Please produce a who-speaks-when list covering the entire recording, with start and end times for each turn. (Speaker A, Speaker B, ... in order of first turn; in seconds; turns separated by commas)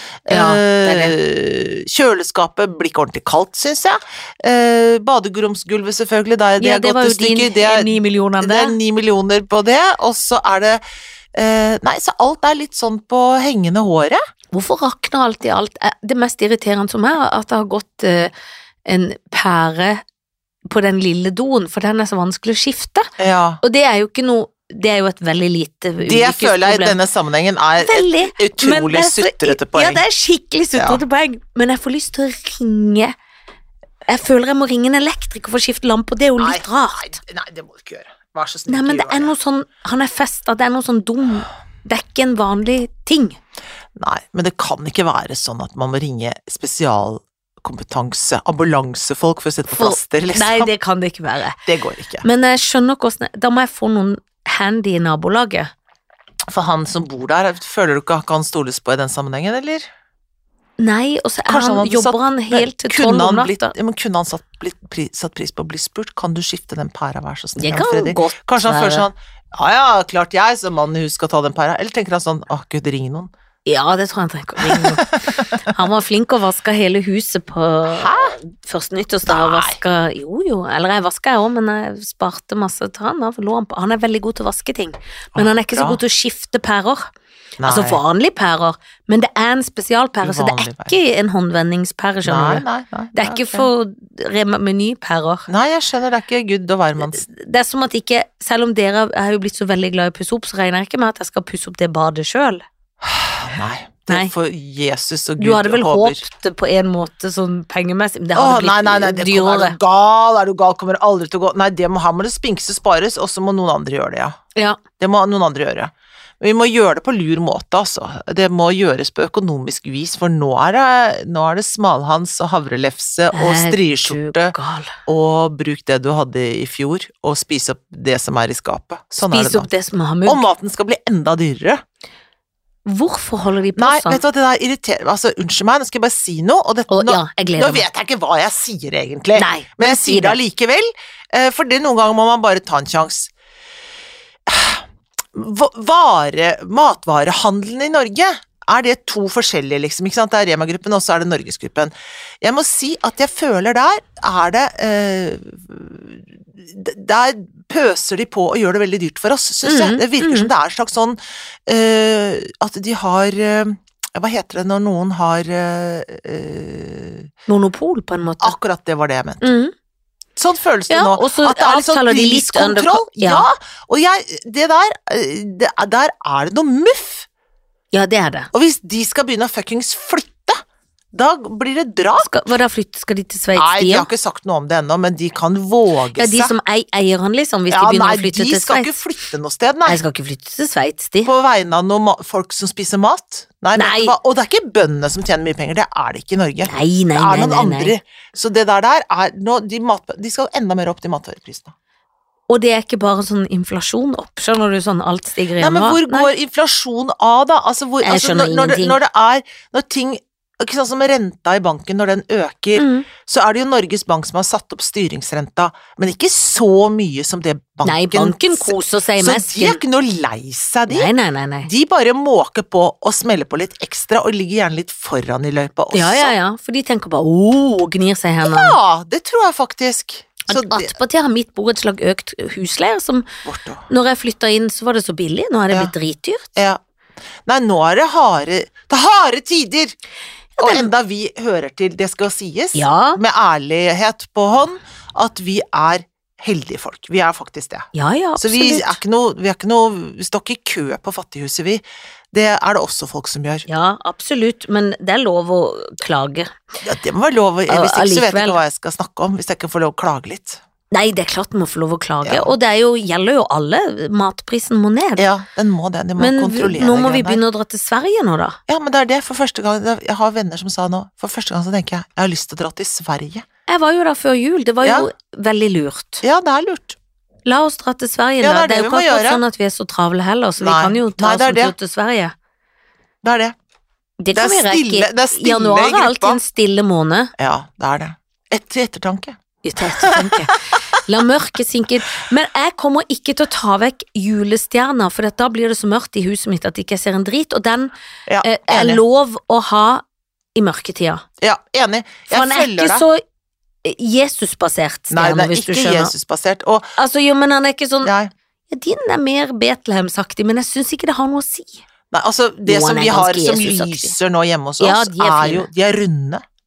Speaker A: 0.2-10.8, Speaker B: 0.3-1.2, Speaker B: 6.6-8.8, Speaker A: 11.3-14.2, Speaker B: 14.5-18.3, Speaker B: 18.9-20.0, Speaker B: 20.7-23.1, Speaker A: 23.2-23.6, Speaker B: 23.6-27.0, Speaker A: 26.0-30.0, Speaker B: 27.8-33.1, Speaker A: 30.8-31.0, Speaker B: 34.1-37.2, Speaker A: 36.4-39.3, Speaker B: 38.7-43.4, Speaker A: 44.0-50.7, Speaker B: 49.7-51.6, Speaker A: 51.6-52.2, Speaker B: 52.2-55.7, Speaker A: 56.5-59.9, Speaker B: 60.8-63.7, Speaker A: 61.5-73.3, Speaker B: 67.6-69.1, Speaker B: 73.7-87.1, Speaker A: 74.6-75.7, Speaker A: 77.9-78.3, Speaker A: 79.2-79.8, Speaker A: 85.3-86.0, Speaker A: 87.6-88.0, Speaker B: 87.6-95.5, Speaker A: 90.2-90.9, Speaker A: 92.2-93.7, Speaker A: 95.5-97.2, Speaker B: 97.0-102.7, Speaker A: 103.0-106.2, Speaker B: 105.4-109.8, Speaker A: 108.3-114.4, Speaker B: 114.5-114.8, Speaker A: 115.0-124.5, Speaker B: 123.3-125.0, Speaker A: 125.0-129.7, Speaker B: 129.3-130.4, Speaker A: 130.3-131.8, Speaker B: 132.8-134.2, Speaker A: 133.8-143.3, Speaker B: 136.9-137.8, Speaker B: 139.3-140.4, Speaker A: 144.5-167.3, Speaker B: 159.6-160.5, Speaker B: 167.5-168.5, Speaker A: 168.4-169.5, Speaker B: 169.4-169.7, Speaker A: 170.3-177.3, Speaker B: 170.9-173.5, Speaker B: 177.9-178.5, Speaker A: 178.5-180.6, Speaker A: 181.1-182.3, Speaker B: 182.2-184.1, Speaker A: 183.6-186.5, Speaker B: 186.2-189.0, Speaker A: 187.7-190.0, Speaker B: 189.8-191.3, Speaker A: 191.2-201.7, Speaker B: 193.8-194.2, Speaker B: 196.7-197.9, Speaker B: 202.5-206.3, Speaker A: 205.6-221.1, Speaker B: 208.0-209.0, Speaker B: 212.8-213.1, Speaker B: 217.8-219.8, Speaker B: 220.9-221.7, Speaker A: 221.6-226.3, Speaker B: 225.9-228.8, Speaker A: 228.4-231.0, Speaker B: 230.5-233.3, Speaker A: 233.4-233.8, Speaker B: 233.9-236.4, Speaker A: 237.4-239.9, Speaker B: 240.6-240.9, Speaker A: 240.6-253.7, Speaker B: 242.7-243.2, Speaker B: 247.9-249.0, Speaker B: 253.7-256.5, Speaker A: 256.8-260.6, Speaker B: 257.7-258.6, Speaker B: 260.9-265.2, Speaker A: 262.2-262.5, Speaker A: 265.2-267.4, Speaker B: 266.2-268.6, Speaker A: 268.7-273.4, Speaker B: 273.7-276.2, Speaker A: 274.8-275.1, Speaker A: 276.2-277.0, Speaker B: 277.4-282.3, Speaker A: 278.4-279.4, Speaker A: 280.6-281.8, Speaker A: 283.2-283.5, Speaker B: 284.2-287.3, Speaker A: 284.3-286.4, Speaker A: 287.4-290.6, Speaker B: 289.6-300.0, Speaker A: 298.2-299.0, Speaker B: 300.6-301.2, Speaker A: 301.4-303.0, Speaker B: 302.3-303.2, Speaker B: 303.8-306.1, Speaker A: 305.1-306.9, Speaker B: 307.0-308.1, Speaker A: 308.0-308.3, Speaker B: 308.7-311.8, Speaker A: 312.1-316.4, Speaker B: 312.6-314.1, Speaker B: 314.8-315.7